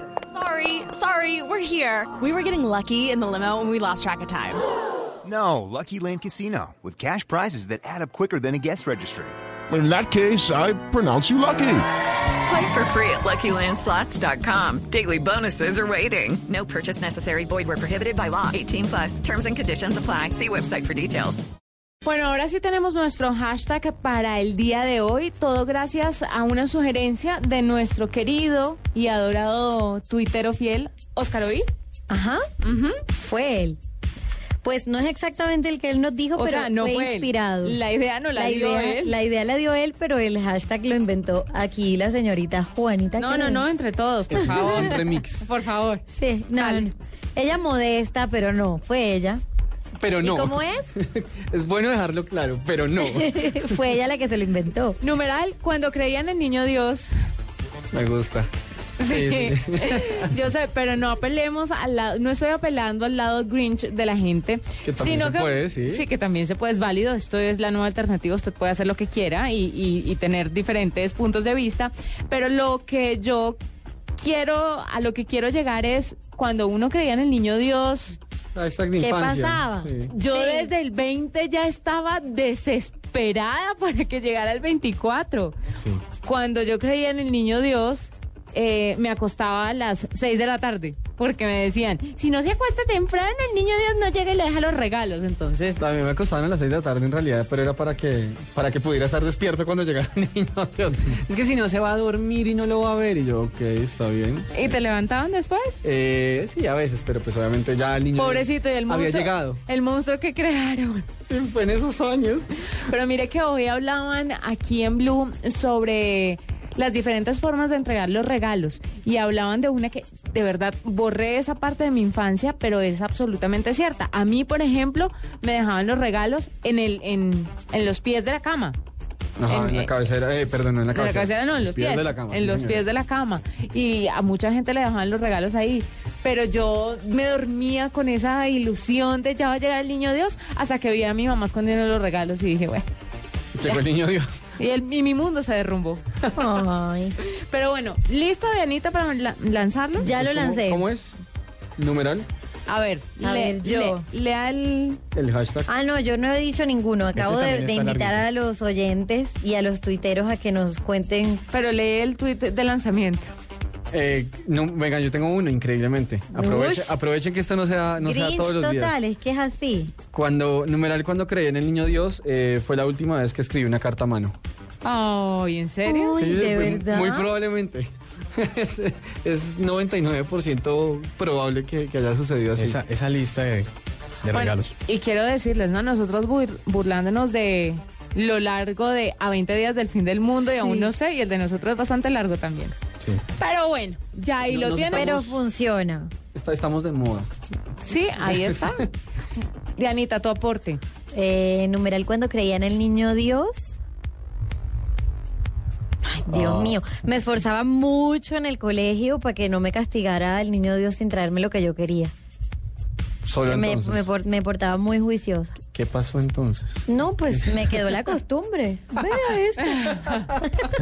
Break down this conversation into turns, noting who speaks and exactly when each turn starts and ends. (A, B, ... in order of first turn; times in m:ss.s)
0:00.3-0:04.6 A
0:05.2-0:09.4 B
0:09.7-0:11.9 C
0:12.4-0:21.4 D
0:22.0-0:31.7 E
0:32.1-0:32.5 F
0:32.6-0:33.0 E
0:33.2-0:33.8 F
0:34.6-0:37.8 F
0:36.4-0:39.2 E
0:38.4-0:43.7 F
0:43.2-0:46.0 E
0:44.3-0:45.5 G
0:46.1-0:49.4 F
0:46.6-0:46.9 E
0:50.0-0:53.8 G
0:50.2-0:50.9 F
0:53.0-0:55.0 F
0:55.0-0:57.2 E
0:57.9-0:58.5 G
0:59.0-1:13.6 E
0:59.0-1:00.3 G
1:04.8-1:06.0 G
1:14.2-1:18.2 E
1:18.6-1:20.1 G
1:19.0-1:20.7 F
1:20.2-1:25.6 E
1:26.2-1:35.8 E
1:35.8-1:44.7 G
1:44.5-1:45.8 E
1:45.8-1:49.6 G
1:48.2-1:51.1 E
1:51.3-1:52.5 G
1:52.9-2:08.8 E
2:09.4-2:12.8 G
2:09.5-2:10.0 E
2:10.9-2:22.9 E
2:23.5-2:24.4 G
2:24.6-2:26.0 E
2:26.4-2:27.2 F
2:27.5-2:30.1 E
2:30.0-2:30.9 F
2:30.0-2:31.2 G
2:31.8-2:32.3 G
2:32.7-2:35.0 E
2:33.2-2:34.0 F
2:35.1-2:35.7 G
2:35.7-2:41.4 F
2:37.1-2:38.2 H
2:41.5-2:43.3 E
2:43.9-2:49.0 G
2:46.3-2:47.0 F
2:48.0-2:49.9 F
2:50.1-2:54.4 G
2:54.8-2:56.2 E
2:55.9-2:57.3 F
2:56.2-3:02.8 G
3:02.6-3:03.7 H
3:04.2-3:04.7 H
3:04.3-3:12.7 E
3:10.6-3:10.9 F
3:13.4-3:15.2 E
3:14.5-3:15.4 G
3:14.9-3:16.1 F
3:16.3-3:17.3 G
3:17.8-3:18.9 E
3:18.3-3:18.7 G
3:19.8-3:20.8 E
3:21.1-3:23.8 F
3:26.0-3:32.1 F
3:26.3-3:26.8 G
3:33.2-3:34.1 G
3:33.4-3:35.6 F
3:35.7-3:37.6 G
3:36.9-3:40.4 F